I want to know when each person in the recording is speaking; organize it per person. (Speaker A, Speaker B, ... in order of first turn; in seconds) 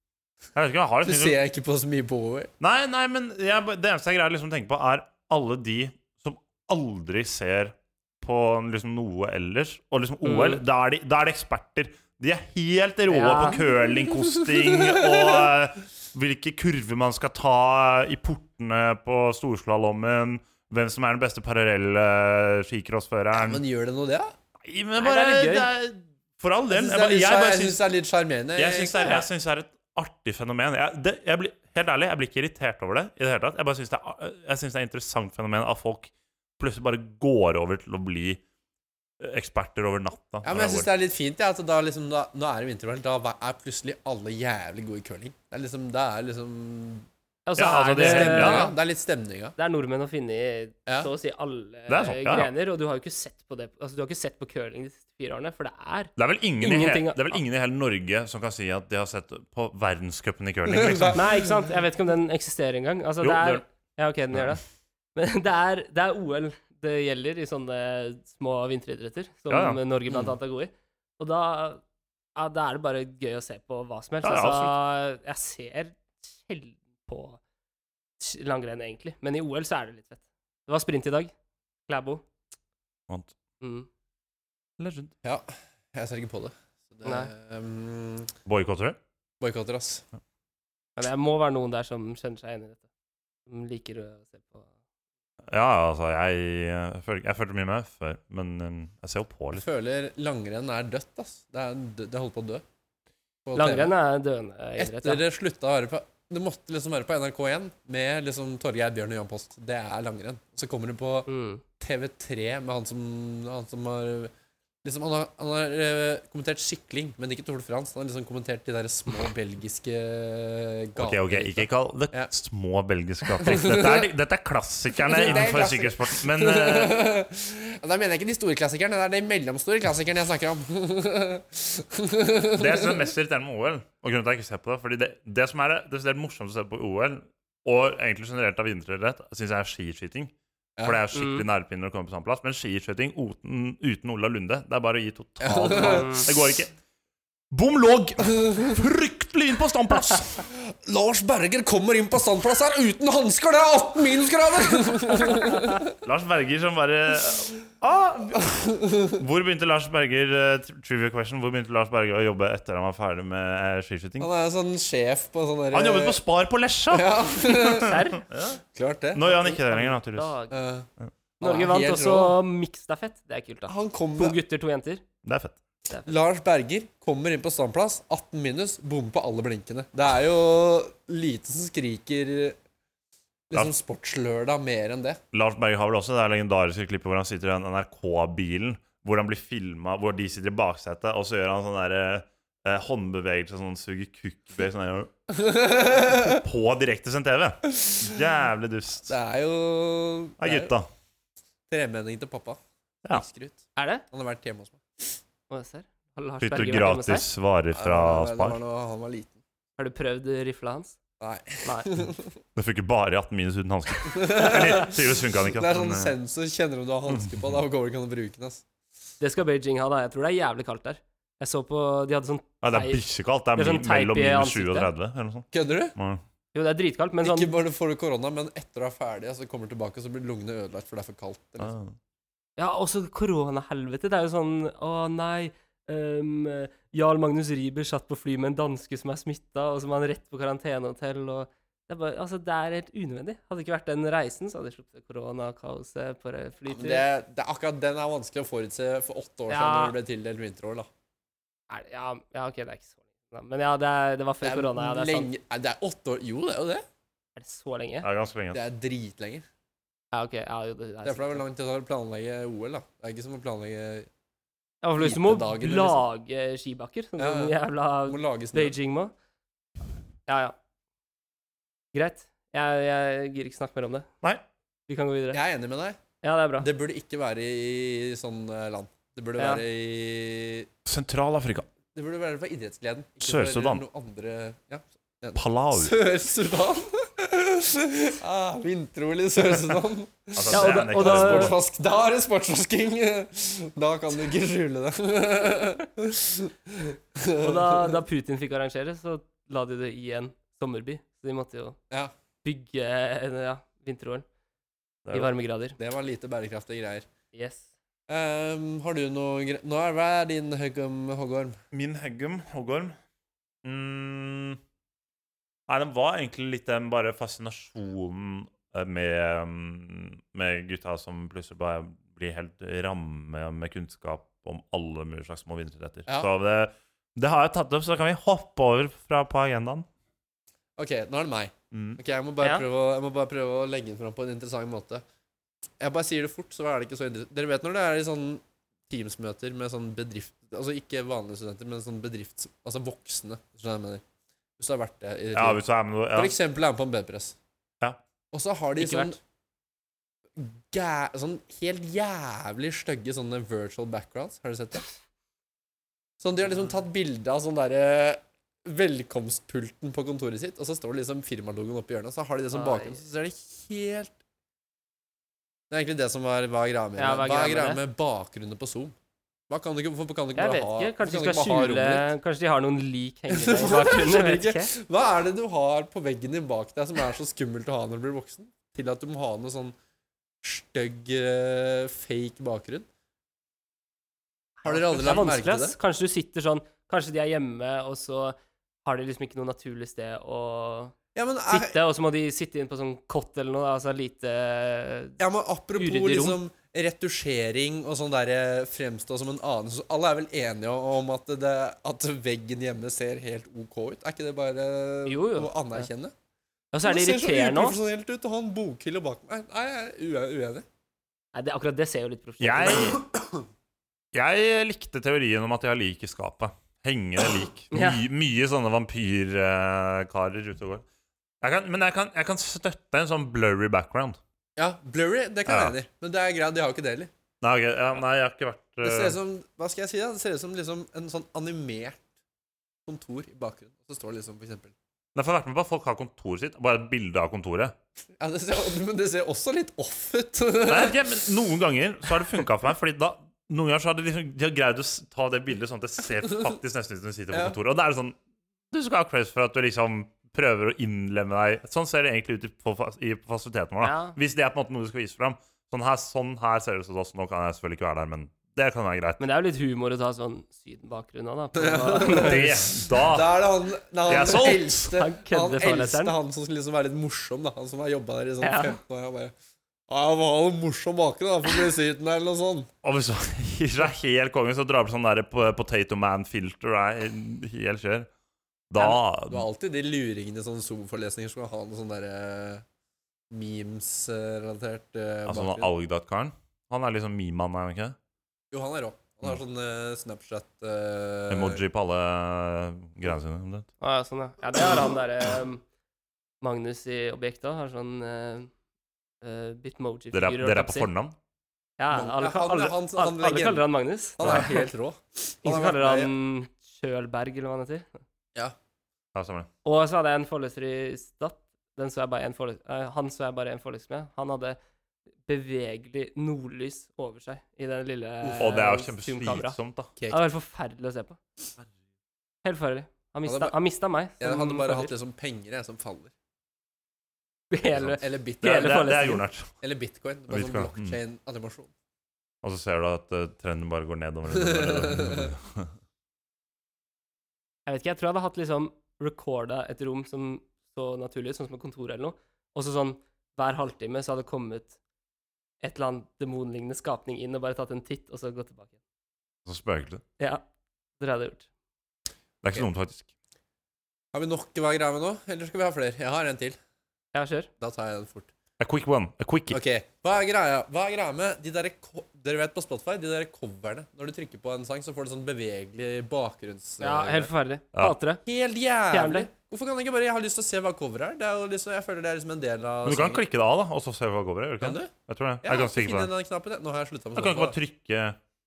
Speaker A: 0.6-1.4, 2.6-23.6, 24.6-27.8, 28.6-38.4, 39.2-40.9, 47.6-48.7, 51.9-52.5, 56.2-61.3, 63.2-63.6, 69.5-69.8, 74.2-74.7, 84.8-85.1, 88.5-89.0, 95.5-99.6, 121.0-127.0, 132.6-140.3, 140.8-146.7, 147.5-150.4, 156.0-158.5, 159.1-164.3, 165.7-168.6, 169.1-170.3, 175.2-175.6, 185.3-195.1, 196.1-199.1, 200.4-200.9, 206.4-208.6, 212.6-216.2, 217.1-217.5, 222.6-226.2, 231.6-232.0, 258.0-258.6, 280.9-281.7, 283.2-283.8, 285.4-285.9, 290.4-291.6, 305.1-305.3, 311.7-312.9, 313.6-314.6, 315.7-329.9, 331.7-332.0, 345.3-346.3, 412.4-413.0, 414.1-420.8, 421.4-424.2, 425.5-425.8, 427.4-429.2, 435.1-437.7, 440.7-448.2, 448.7-459.2, 462.0-463.4, 464.1-464.9, 472.8-478.1, 478.7-479.5, 485.3-487.9, 491.3-493.7, 500.1-501.1, 509.1-509.5, 518.4-519.9, 528.4-529.5, 530.3-531.0, 532.4-535.7, 549.5-550.0, 552.4-553.1, 558.6-559.6, 572.9-576.1, 577.1-578.2
Speaker B: 1.0-2.5, 14.1-15.4, 23.3-24.3, 26.7-29.2, 40.4-47.1, 47.6-49.5, 60.7-61.4, 85.2-88.3, 89.4-90.0, 99.5-102.6, 103.5-103.9, 104.8-111.3, 111.8-114.3, 114.8-122.3, 123.4-124.1, 125.1-133.1, 145.4-146.2, 150.5-155.9, 158.4-159.2, 164.2-166.2, 166.9-168.0, 168.7-169.9, 170.5-170.9, 171.4-172.4, 173.7-174.4, 176.1-182.6, 183.5-185.2, 195.3-196.4, 197.8-198.1, 199.1-200.7, 201.7-205.2, 207.7-209.4, 211.2-212.3, 214.1-215.0, 215.5-218.6, 225.5-225.9, 227.2-231.7, 246.7-250.9, 254.4-256.8, 258.5-259.4, 261.0-264.1, 265.0-266.0, 267.2-268.8, 275.3-276.0, 276.6-280.7, 281.9-298.0, 305.8-307.1, 308.1-311.6, 330.8-335.0, 335.8-344.0, 344.6-345.6, 346.1-347.4, 348.3-349.2, 350.4-354.9, 356.2-364.2, 365.7-368.9, 369.5-372.1, 373.3-379.8, 380.4-382.9, 384.6-385.8, 391.1-391.8, 395.2-406.1, 406.8-410.6, 413.1-413.4, 424.6-427.1, 428.8-432.0, 432.9-434.7, 438.2-441.0, 447.3-447.6, 461.6-462.5, 463.0-469.3, 469.9-472.7, 479.3-482.6, 483.3-485.7, 488.5-491.6, 501.9-503.6, 504.2-506.1, 518.2-518.6, 520.0-520.2, 523.3-523.5, 524.2-526.1, 527.8-528.9, 529.6-531.7, 534.3-535.3, 554.1-556.6, 557.6-558.3, 559.5-567.3, 568.2-573.2, 574.6-574.9, 575.4-577.5
Speaker C: 10.2-10.6, 13.1-13.6, 25.0-25.7, 47.5-48.7, 49.6-57.4, 61.1-64.6, 65.2-71.8, 72.4-77.4, 78.2-81.3, 81.9-82.2, 83.6-83.9, 87.0-87.3, 91.0-92.8, 93.5-94.7, 103.5-105.2, 111.3-111.6, 141.1-141.5, 145.7-146.3, 167.9-168.2, 170.1-170.6, 171.4-175.0, 203.8-204.0, 205.5-207.3, 209.8-211.0, 211.6-211.9, 219.2-223.0, 223.6-224.9, 226.5-227.5, 232.6-247.0, 249.5-249.9, 251.7-255.3, 257.4-258.1, 260.1-261.4, 264.8-269.1, 270.3-270.6, 271.9-274.1, 274.9-275.4, 276.2-276.7, 279.4-279.6, 290.5-291.5, 297.4-301.8, 302.4-304.2, 305.1-305.8, 307.3-307.7, 348.8-349.2, 362.5-363.0, 367.0-367.8, 370.4-374.7, 384.6-390.9, 391.5-395.2, 395.8-396.4, 405.1-405.9, 406.7-407.8, 411.3-413.0, 417.7-418.0, 453.8-454.2, 459.2-462.5, 464.9-466.1, 468.4-468.8, 493.8-495.6, 496.4-498.5, 499.2-500.9, 501.8-504.7, 505.4-508.0, 509.6-514.6, 515.3-519.6, 520.1-521.2, 522.4-524.9, 527.5-529.2, 537.7-544.8, 545.6-548.8, 551.0-551.5, 557.1-557.5, 566.8-568.2, 568.9-569.3